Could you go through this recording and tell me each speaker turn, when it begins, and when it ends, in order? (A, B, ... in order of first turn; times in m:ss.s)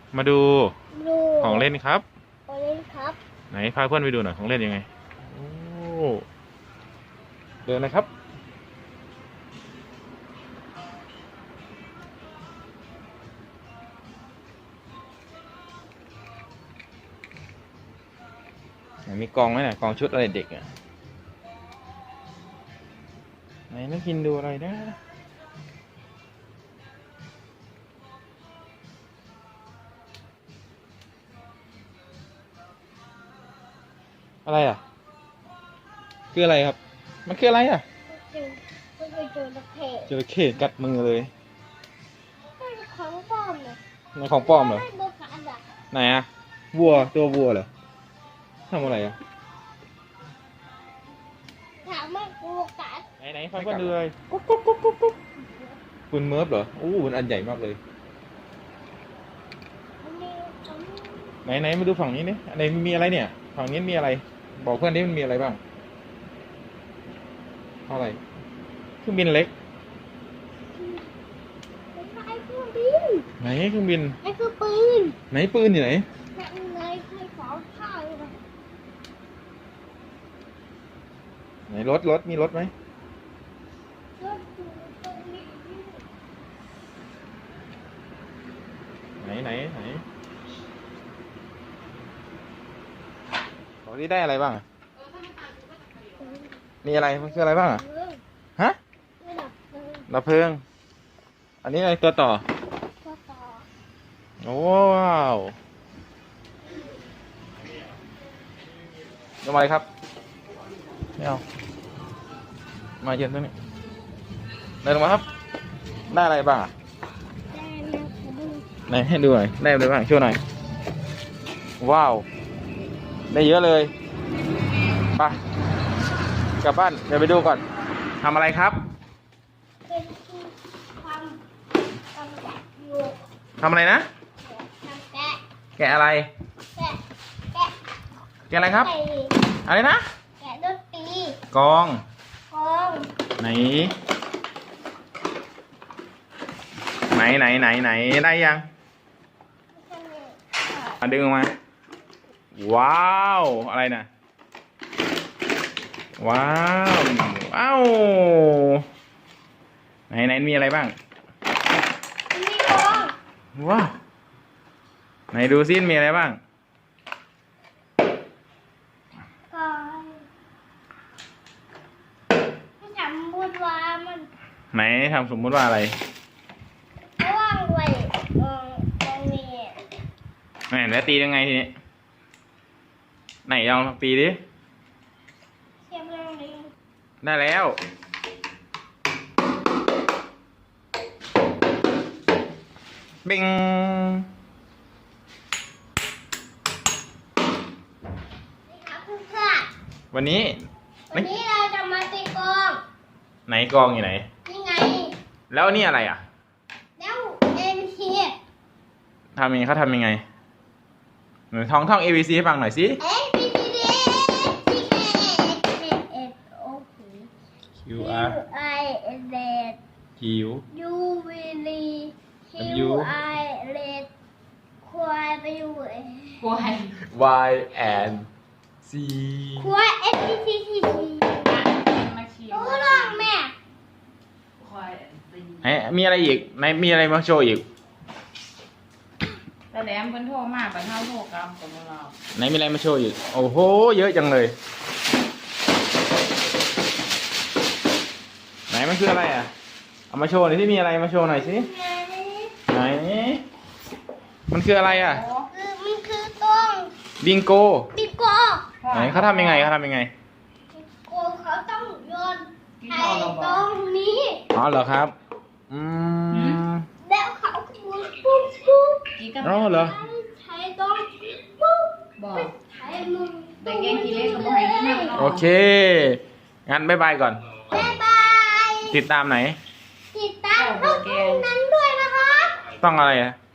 0:00.1-0:00.7 A
0:00.9-0:01.7 B
0:01.4-0:02.0 A
0:02.5-0:03.2 B
0:03.5-0:06.2 A
0:07.6-0:08.1 A
0:19.0-0:20.7 A
0:23.7-0:25.0 A
0:34.4-0:34.8 A
0:36.3-0:37.8 A
0:38.1-0:40.1 B
0:40.1-0:41.3 A
0:42.6-0:43.8 B
0:44.1-0:44.8 A
0:44.3-0:45.6 B
0:45.9-0:47.7 A
0:48.7-0:49.2 A
0:51.8-0:53.1 B
0:53.2-0:54.1 A
0:54.3-0:55.6 B
0:56.1-0:57.8 A
1:00.0-1:01.4 B
1:01.4-1:05.6 A
1:07.9-1:08.2 A
1:09.0-1:09.5 A
1:10.7-1:11.1 B
1:11.9-1:13.3 B
1:13.4-1:14.2 A
1:14.2-1:15.2 B
1:15.3-1:16.0 A
1:16.3-1:18.3 B
1:21.7-1:22.7 A
1:24.2-1:26.0 B
1:29.2-1:30.0 A
1:33.8-1:34.6 A
1:36.2-1:38.2 B
1:36.8-1:37.8 A
1:39.2-1:40.1 B
1:40.1-1:40.6 A
1:41.6-1:42.4 A
1:43.0-1:43.6 B
1:44.4-1:45.5 A
1:49.4-1:49.8 A
1:53.0-1:53.5 A
1:54.8-1:55.2 A
1:56.1-1:56.7 A
1:57.5-1:58.7 B
1:58.9-2:00.4 A
2:01.8-2:02.2 A
2:03.3-2:03.9 A
2:06.6-2:07.6 A
2:08.2-2:08.8 A
2:09.8-2:11.4 B
2:12.1-2:13.2 B
2:13.6-2:14.1 A
2:14.4-2:15.4 B
2:15.8-2:16.3 A
2:16.7-2:17.0 B
2:18.5-2:18.9 A
2:18.7-2:19.3 B
2:19.6-2:20.0 A
2:20.4-2:21.4 B
2:21.5-2:22.0 A
2:22.5-2:23.1 B
2:23.4-2:24.0 A
2:27.1-2:28.6 A
2:29.7-2:30.4 B
2:31.0-2:31.5 A
2:32.5-2:34.1 A
2:36.2-2:38.8 A
2:40.1-2:40.9 A
2:42.3-2:43.1 B
2:43.6-2:43.9 A
2:45.3-2:46.4 A
2:49.5-2:50.2 B
2:52.8-2:54.3 B
2:54.7-2:56.0 A
2:57.2-2:59.8 B
3:00.7-3:01.7 A
3:03.4-3:04.4 A
3:05.9-3:06.7 B
3:07.2-3:07.8 A
3:13.2-3:14.3 A
3:18.7-3:19.7 B
3:20.1-3:21.3 A
3:21.1-3:22.8 B
3:23.5-3:24.2 A
3:24.4-3:25.2 B
3:25.5-3:26.2 A
3:27.0-3:28.4 B
3:29.4-3:30.2 A
3:31.5-3:33.0 A
3:33.0-3:37.3 B
3:37.8-3:38.4 A
3:38.0-3:39.8 B
3:40.2-3:40.6 A
3:40.7-3:44.1 B
3:42.6-3:43.1 A
3:44.8-3:46.5 B
3:46.4-3:47.0 C
3:47.0-3:48.3 A
3:48.8-3:49.7 A
3:49.6-3:51.6 B
3:51.4-3:53.3 C
3:52.5-3:53.5 B
3:54.6-3:55.7 C
3:55.6-3:57.6 A
3:59.7-4:02.2 C
4:02.3-4:04.5 A
4:08.7-4:09.5 A
4:10.1-4:11.7 A
4:11.2-4:12.5 B
4:12.7-4:13.4 A
4:14.5-4:15.2 A
4:14.8-4:15.5 C
4:15.5-4:16.9 B
4:17.2-4:17.9 A
4:17.9-4:18.7 B
4:18.8-4:19.7 C
4:18.9-4:20.1 A
4:20.7-4:24.4 B
4:22.8-4:23.7 C
4:24.5-4:25.1 A
4:25.7-4:26.8 A
4:26.3-4:26.6 C
4:27.0-4:35.2 B
4:29.2-4:29.7 C
4:29.4-4:30.0 A
4:32.2-4:32.5 C
4:33.6-4:35.5 C
4:35.1-4:37.4 A
4:37.7-4:39.0 B
4:38.9-4:39.6 A
4:40.1-4:42.6 B
4:40.5-4:41.5 C
4:42.8-4:43.4 A